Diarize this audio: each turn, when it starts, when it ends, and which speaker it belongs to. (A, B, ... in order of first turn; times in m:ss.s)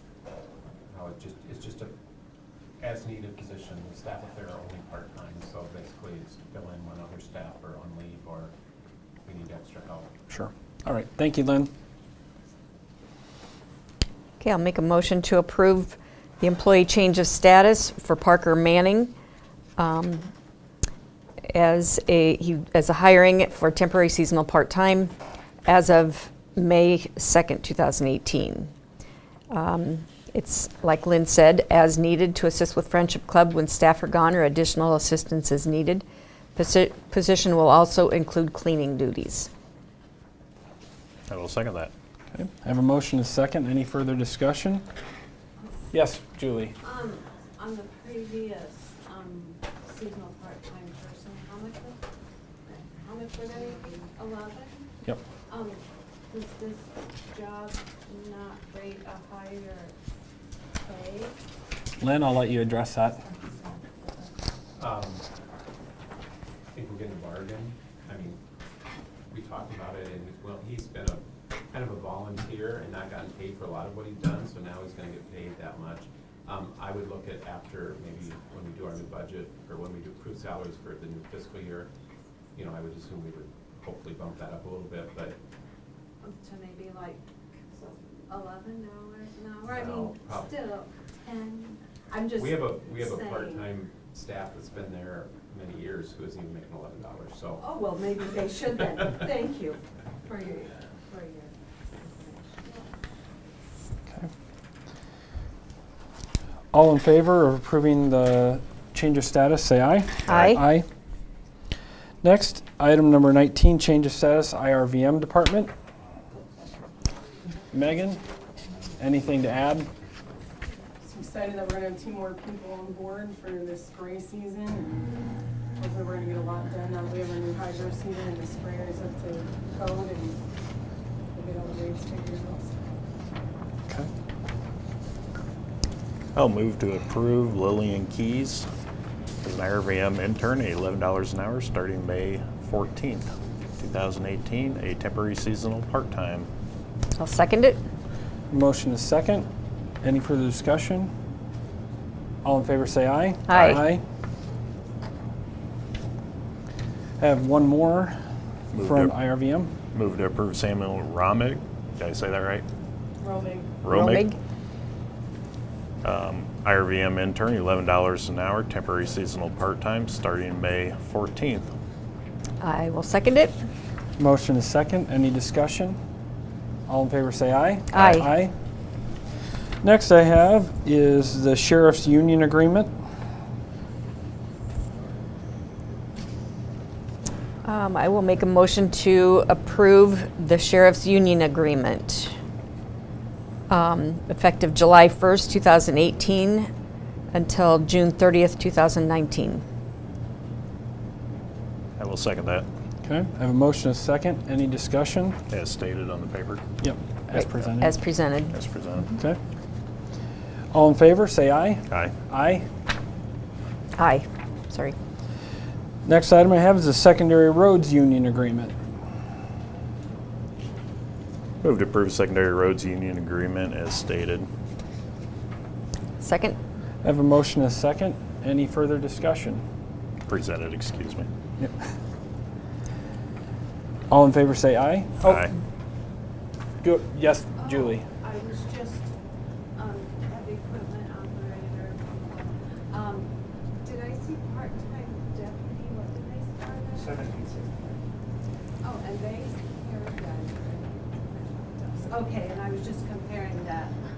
0:00.9-0:01.9 A
0:02.8-0:08.5 A
0:09.2-0:10.1 A
0:10.3-0:11.7 B
0:14.4-0:19.1 C
0:19.8-0:20.3 C
0:21.5-0:25.1 C
0:25.6-0:28.7 C
0:29.5-0:36.0 C
0:36.6-0:39.5 C
0:41.3-0:41.9 D
0:42.3-0:44.8 B
0:45.9-0:46.8 B
0:46.8-0:52.0 E
0:52.6-0:54.9 E
0:55.5-0:59.9 E
1:00.8-1:01.4 E
1:02.0-1:03.2 B
1:03.2-1:04.3 E
1:04.8-1:05.2 A
1:06.7-1:08.4 A
1:09.3-1:21.9 A
1:22.5-1:25.4 A
1:26.2-1:27.2 E
1:28.3-1:33.7 E
1:29.7-1:30.6 A
1:32.3-1:37.6 A
1:37.6-1:42.9 E
1:46.7-1:50.8 B
1:50.2-1:50.6 C
1:52.2-1:55.7 B
1:57.7-1:58.2 B
1:59.0-1:59.9 B
2:01.0-2:05.1 F
2:05.8-2:10.4 F
2:11.3-2:13.0 F
2:16.3-2:18.7 D
2:19.4-2:26.5 D
2:27.2-2:27.8 C
2:28.5-2:29.5 B
2:30.0-2:31.1 B
2:32.4-2:34.0 B
2:33.5-2:33.8 C
2:33.5-2:33.8 D
2:37.2-2:38.2 B
2:38.7-2:39.1 D
2:38.7-2:39.7 B
2:39.9-2:42.7 D
2:43.2-2:43.8 F
2:43.8-2:44.3 D
2:43.8-2:44.4 C
2:46.0-2:51.7 D
2:52.6-2:53.6 C
2:54.2-2:56.0 B
2:56.9-2:58.5 B
2:57.9-2:58.3 C
2:59.8-3:02.9 B
3:07.6-3:12.3 C
3:13.7-3:16.7 C
3:17.3-3:19.6 C
3:22.0-3:22.7 D
3:23.0-3:25.4 B
3:25.5-3:26.6 D
3:26.8-3:27.9 B
3:27.3-3:28.6 C
3:28.5-3:29.1 D
3:30.7-3:32.7 B
3:34.0-3:35.0 C
3:36.0-3:38.8 B
3:41.6-3:44.5 D
3:46.2-3:46.6 C
3:47.0-3:49.6 B
3:50.3-3:51.3 D
3:54.1-3:55.5 B
3:55.2-3:55.5 D
3:56.8-3:58.0 B
3:57.6-3:59.1 E
3:59.8-4:07.5 E
4:08.8-4:13.9 E